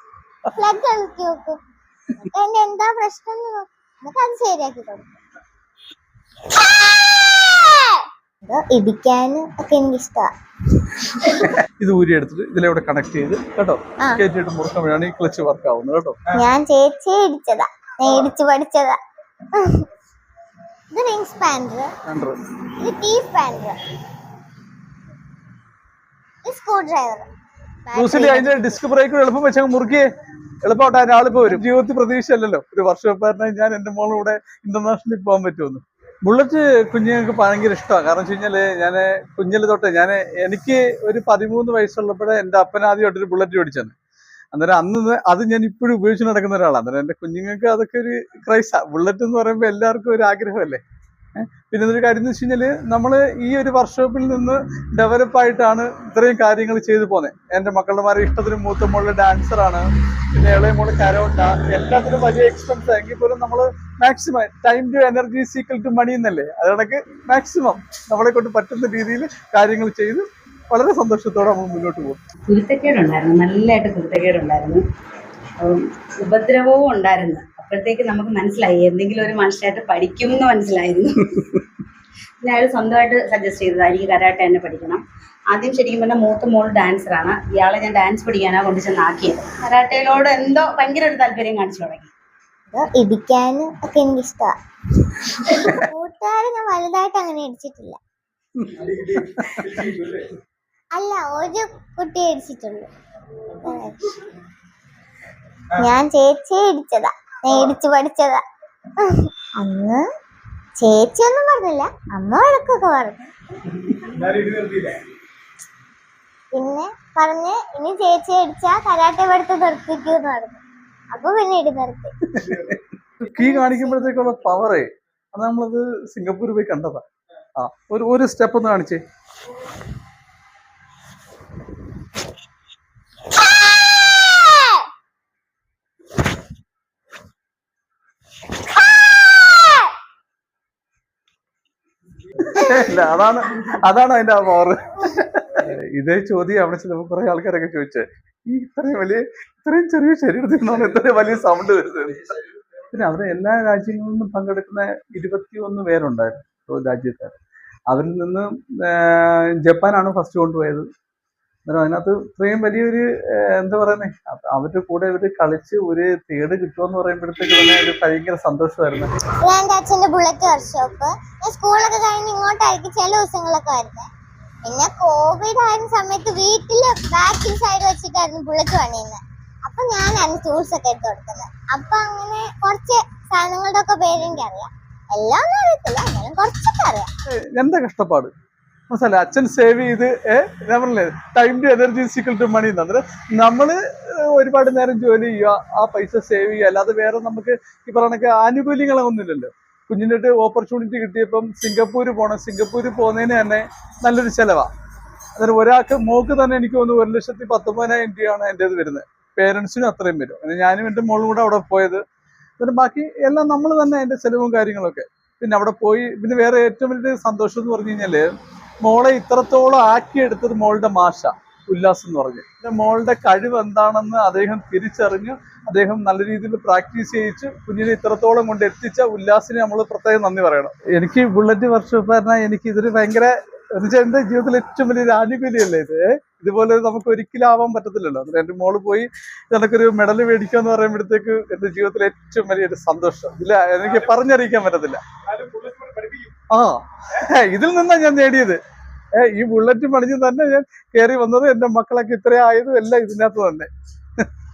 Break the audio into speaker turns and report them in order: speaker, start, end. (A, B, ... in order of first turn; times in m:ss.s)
0:00.5-0:01.6 A
0:02.2-0:05.2 A
0:07.6-0:10.3 A
0:11.4-0:16.2 B
0:16.3-0:19.0 A
0:19.5-0:19.8 A
0:20.9-0:21.9 A
0:22.0-0:22.4 B
0:22.8-0:23.8 A
0:26.4-0:27.3 A
0:27.9-0:28.8 A
0:27.9-0:30.1 B
0:30.6-0:43.9 B
0:44.5-0:50.8 B
0:51.4-1:12.2 B
1:12.5-1:14.8 C
1:15.6-1:21.4 C
1:22.4-1:32.1 C
1:32.7-1:34.5 A
1:35.5-1:38.0 A
1:38.6-1:40.0 B
1:40.9-1:42.9 A
1:43.5-1:44.1 A
1:45.8-1:48.4 A
1:49.0-1:50.0 A
1:50.8-1:53.3 A
1:56.5-2:02.1 A
2:02.3-2:07.0 B
2:03.3-2:04.2 A
2:07.6-2:09.0 B
2:22.4-2:32.3 B
2:32.9-2:37.4 B
2:37.9-2:40.9 B
2:41.7-2:49.1 B
2:49.4-2:54.1 A
2:54.6-3:07.1 A
3:07.3-3:08.3 B
3:08.9-3:24.7 B
3:25.4-3:32.0 B
3:32.6-3:38.3 B
3:38.8-4:05.0 B
4:06.5-4:08.6 B
4:09.2-4:14.3 B